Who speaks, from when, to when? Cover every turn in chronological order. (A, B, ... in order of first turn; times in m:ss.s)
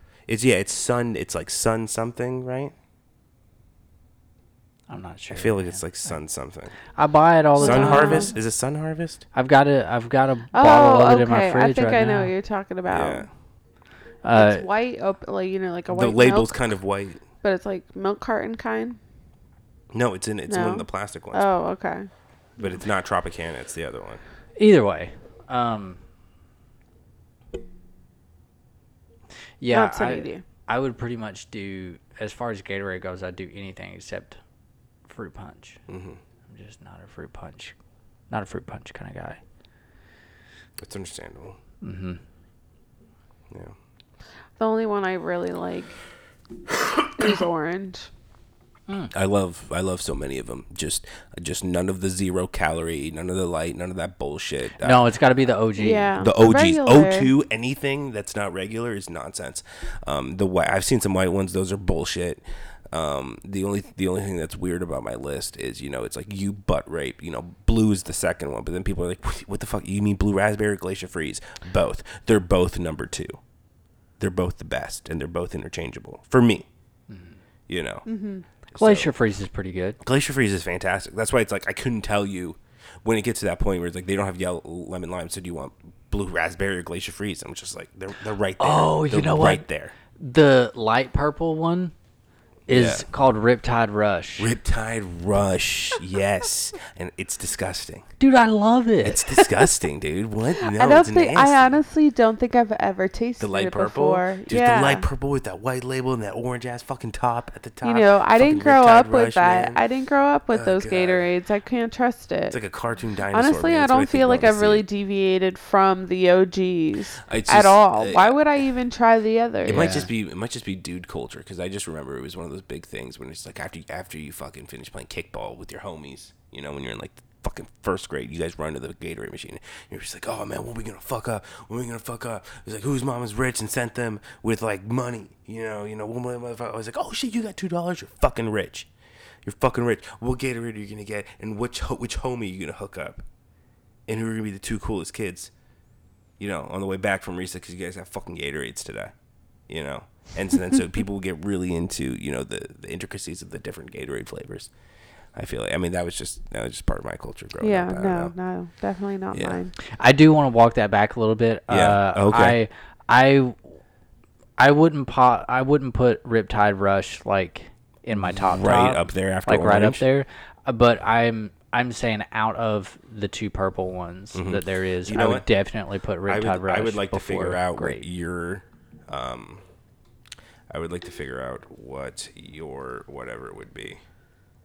0:00.3-0:02.7 A
0:04.9-0:06.1 B
0:05.3-0:06.8 A
0:06.9-0:08.3 B
0:07.6-0:09.2 A
0:07.6-0:08.3 C
0:09.3-0:12.3 B
0:10.5-0:13.3 C
0:12.9-0:13.3 A
0:14.2-0:14.6 B
0:14.3-0:16.6 C
0:15.9-0:17.2 A
0:17.4-0:19.0 C
0:19.9-0:21.4 A
0:20.5-0:22.1 C
0:22.6-0:24.2 A
0:24.6-0:26.0 B
0:29.6-0:34.4 B
0:29.7-0:30.4 C
0:35.1-0:35.8 B
0:35.9-0:36.2 A
0:36.4-0:37.7 B
0:38.3-0:39.4 B
0:40.8-0:41.6 A
0:41.8-0:42.2 B
0:43.5-0:43.7 A
0:44.6-0:45.9 C
0:47.1-0:48.1 C
0:49.1-0:55.1 A
0:54.8-0:56.1 B
0:55.8-0:57.3 C
0:56.2-1:13.4 A
1:14.2-1:16.7 A
1:17.1-1:17.4 B
1:17.7-1:18.0 A
1:18.0-1:18.4 C
1:18.7-1:19.1 A
1:18.7-1:20.0 B
1:20.0-1:29.9 A
1:28.6-1:29.6 B
1:30.2-1:31.9 B
1:32.7-1:33.0 A
1:32.7-1:34.5 B
1:34.4-1:38.1 A
1:38.2-1:39.2 B
1:39.0-1:41.8 A
1:40.6-1:45.1 C
1:43.4-1:49.8 A
1:47.8-1:52.6 C
1:50.5-1:51.3 A
1:52.5-1:54.8 A
1:53.3-2:00.0 C
1:57.3-1:58.4 A
1:59.6-2:18.9 A
1:59.7-2:00.1 B
2:19.4-2:23.2 A
2:24.1-2:25.5 A
2:26.4-2:29.1 A
2:29.7-2:34.7 A
2:35.3-2:38.3 A
2:37.6-2:39.7 C
2:39.3-2:39.6 A
2:39.9-2:43.6 B
2:41.7-2:42.6 A
2:44.6-2:58.1 B
2:48.1-2:50.0 A
2:54.3-2:55.5 A
2:56.2-2:59.6 A
3:00.7-3:04.0 A